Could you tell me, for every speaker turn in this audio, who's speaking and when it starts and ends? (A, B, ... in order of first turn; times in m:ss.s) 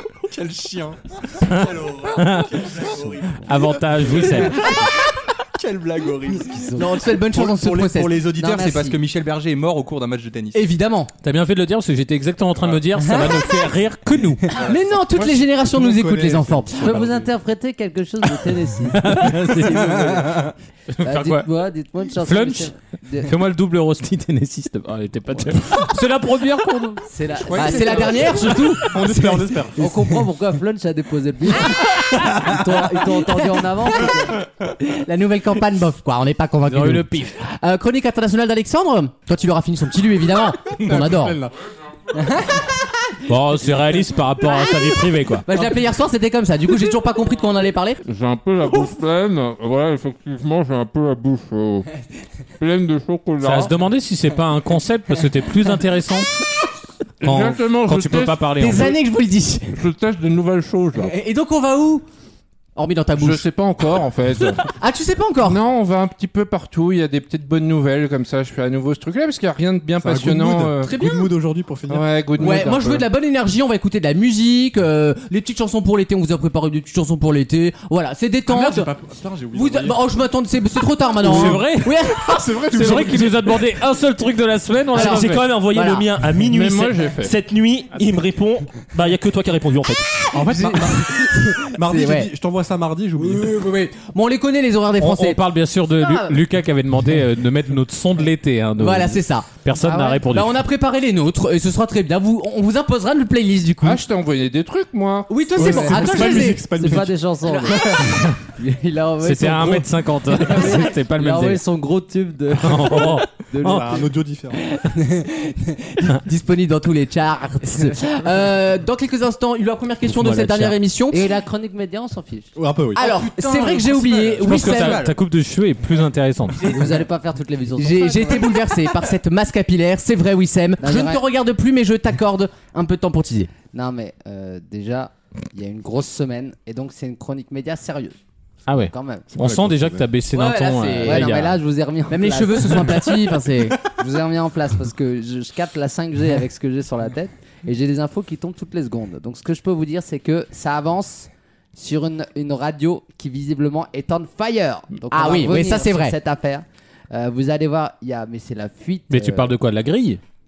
0:00.2-0:10.6 A
0:01.5-0:02.7 B
0:03.4-0:04.7 B
0:06.4-0:06.8 C
0:06.8-0:09.0 D
0:10.5-0:11.1 D
0:11.2-0:14.4 B
0:14.6-0:17.0 D
0:15.0-0:17.3 E
0:16.8-0:20.5 C
0:19.0-0:20.0 B
0:20.0-0:20.5 A
0:20.9-0:21.5 B
0:21.0-0:23.3 C
0:22.2-0:27.0 B
0:27.1-0:28.6 C
0:27.5-0:28.3 F
0:27.5-0:29.5 D
0:27.6-0:28.1 A
0:28.8-0:30.0 E
0:29.8-0:34.4 C
0:34.6-0:41.4 D
0:36.7-0:37.4 B
0:40.8-0:41.6 E
0:42.2-0:42.6 D
0:43.3-0:45.4 B
0:45.5-0:48.0 D
0:48.0-0:51.9 G
0:52.6-0:53.7 G
0:53.4-0:56.3 B
0:57.2-0:58.5 G
0:57.2-0:59.0 B
0:58.6-0:59.7 D
0:59.7-1:01.1 G
1:01.0-1:02.0 D
1:02.8-1:03.5 D
1:03.2-1:04.6 F
1:04.7-1:05.6 D
1:05.4-1:11.0 F
1:10.0-1:12.8 E
1:10.9-1:11.4 D
1:11.9-1:13.1 F
1:12.4-1:18.9 D
1:18.5-1:20.2 E
1:19.5-1:22.5 D
1:21.2-1:21.9 B
1:21.2-1:23.7 E
1:22.7-1:25.4 B
1:24.9-1:30.1 H
1:25.0-1:26.2 D
1:26.5-1:27.3 G
1:30.3-1:33.5 E
1:30.5-1:32.3 D
1:33.2-1:35.4 D
1:35.0-1:40.6 B
1:36.0-1:36.4 D
1:38.8-1:44.0 D
1:43.8-1:45.5 F
1:45.3-1:46.7 D
1:45.5-1:48.2 E
1:45.6-1:47.9 C
1:47.5-1:48.0 D
1:48.6-1:54.0 C
1:49.2-1:51.6 B
1:52.6-1:53.9 B
1:53.6-1:54.6 E
1:56.0-2:01.3 D
2:00.1-2:00.8 B
2:01.1-2:02.5 C
2:02.6-2:03.1 E
2:03.0-2:05.1 D
2:03.0-2:05.2 A
2:04.4-2:06.7 B
2:06.6-2:08.5 C
2:07.8-2:13.5 D
2:10.8-2:11.2 C
2:13.7-2:18.2 C
2:18.7-2:21.6 B
2:18.8-2:19.3 C
2:19.4-2:20.1 E
2:20.3-2:21.4 D
2:20.7-2:23.0 C
2:22.1-2:23.8 D
2:23.8-2:39.5 C
2:35.1-2:36.2 D
2:39.1-2:40.2 B